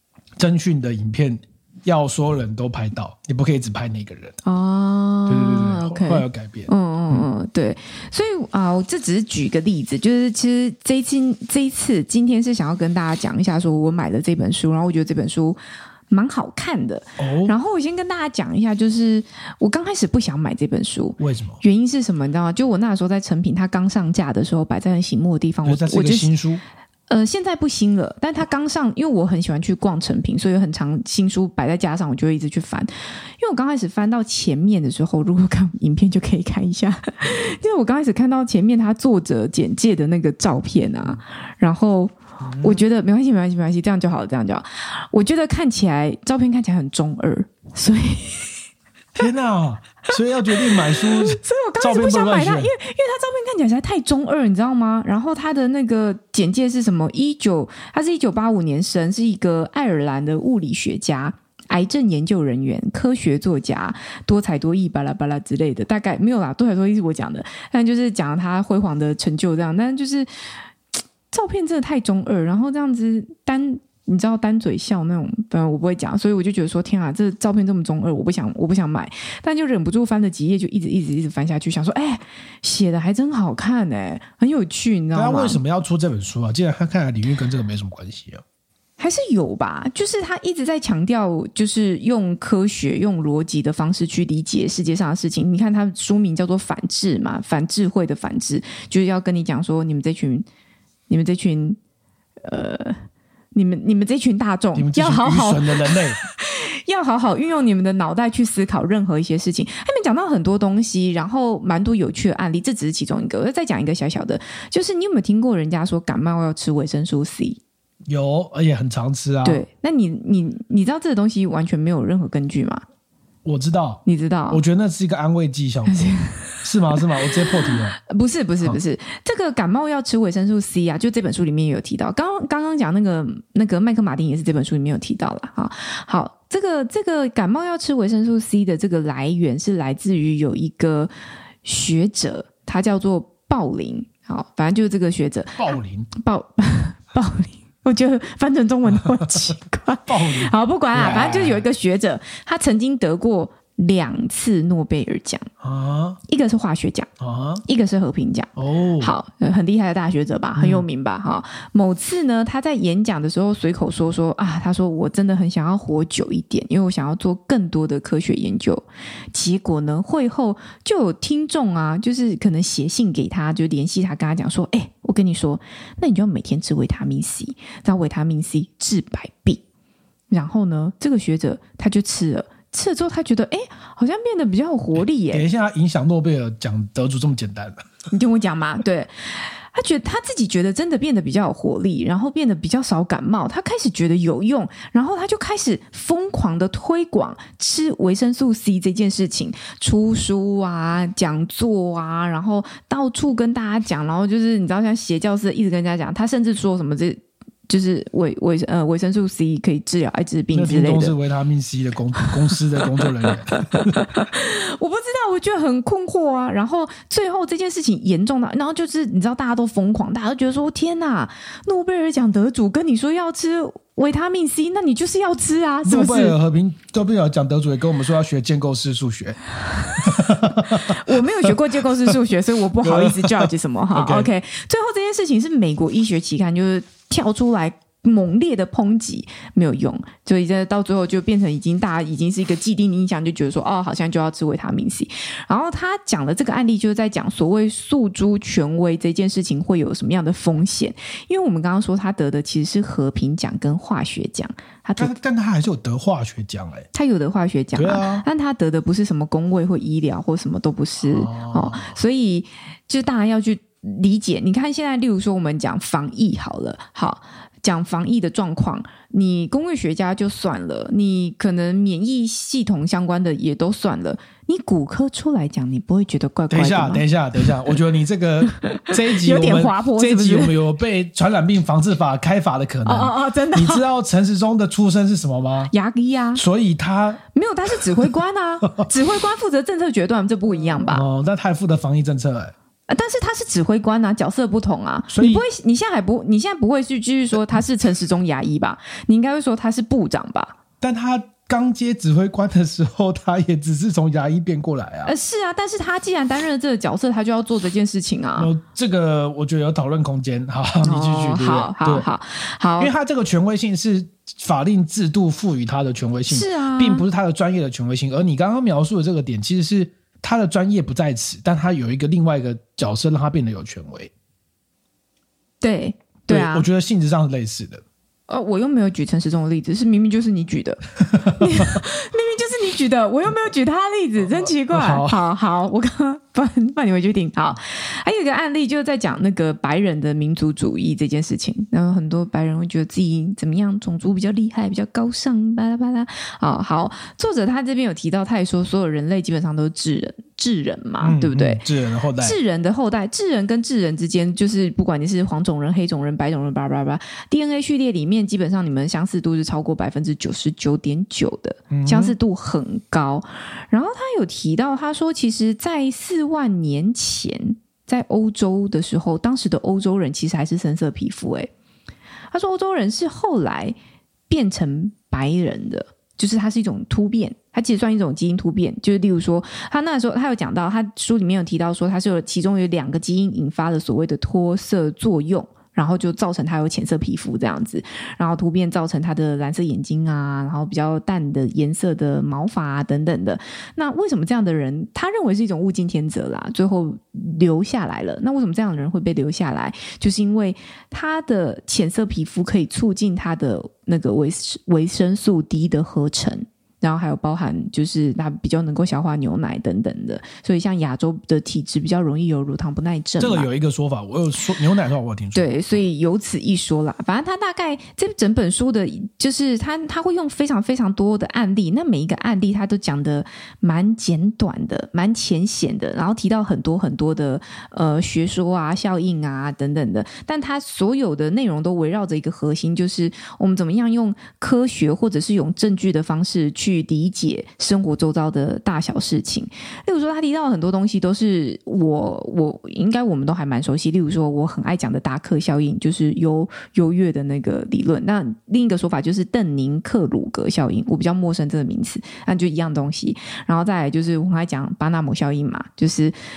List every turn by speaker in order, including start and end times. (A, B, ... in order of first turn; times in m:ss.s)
0:00.4-0:04.4 A
0:04.4-0:15.6 B
0:05.3-0:07.3 A
0:16.1-0:26.3 B
0:17.2-0:17.6 A
0:21.2-0:21.6 A
0:25.6-0:26.6 A
0:27.1-0:48.5 B
0:42.4-0:42.8 A
0:49.2-0:52.7 A
0:50.5-1:10.3 B
1:11.3-1:25.6 B
1:25.1-1:28.4 A
1:29.0-1:40.4 B
1:41.1-1:41.8 B
1:42.4-1:43.0 B
1:43.5-1:57.6 B
1:44.8-1:46.2 A
1:58.1-1:59.6 A
1:59.4-2:02.8 B
2:03.4-2:08.0 A
2:04.1-2:04.6 B
2:05.9-2:21.1 B
2:21.6-2:35.5 B
2:25.6-2:26.1 A
2:30.1-2:31.7 A
2:35.6-2:36.2 A
2:36.3-2:37.1 B
2:37.2-2:37.6 A
2:37.6-2:59.6 B
2:38.6-2:39.1 A
2:40.6-2:40.8 A
3:00.3-3:05.5 B
3:05.3-3:07.9 A
3:08.1-3:31.2 B
3:30.5-3:34.1 A
3:33.8-3:46.4 B
3:45.8-3:49.4 A
3:49.9-4:15.2 B
3:49.9-3:51.5 A
3:52.8-3:54.3 A
4:15.0-4:16.9 A
4:16.9-4:37.7 B
4:17.8-4:18.2 A
4:21.0-4:22.0 A
4:36.5-4:45.7 A
4:38.5-4:40.6 B
4:42.9-4:43.8 B
4:45.7-4:46.4 B
4:46.4-4:48.1 A
4:47.3-4:51.0 B
4:50.8-4:52.5 A
4:52.9-5:00.6 B
4:55.1-4:55.4 A
5:00.8-5:05.1 A
5:05.0-5:08.5 B
5:08.4-5:12.1 A
5:10.8-5:12.9 B
5:12.8-5:24.1 A
5:16.3-5:17.0 B
5:25.6-5:26.7 B
5:26.3-5:27.8 A
5:28.3-5:51.6 B
5:31.1-5:31.7 A
5:34.3-5:35.2 A
5:51.0-5:52.4 A
5:52.2-6:11.5 B
6:01.7-6:02.2 A
6:12.3-6:13.8 B
6:14.3-6:53.5 B
6:53.2-6:55.6 A
6:55.4-7:36.2 B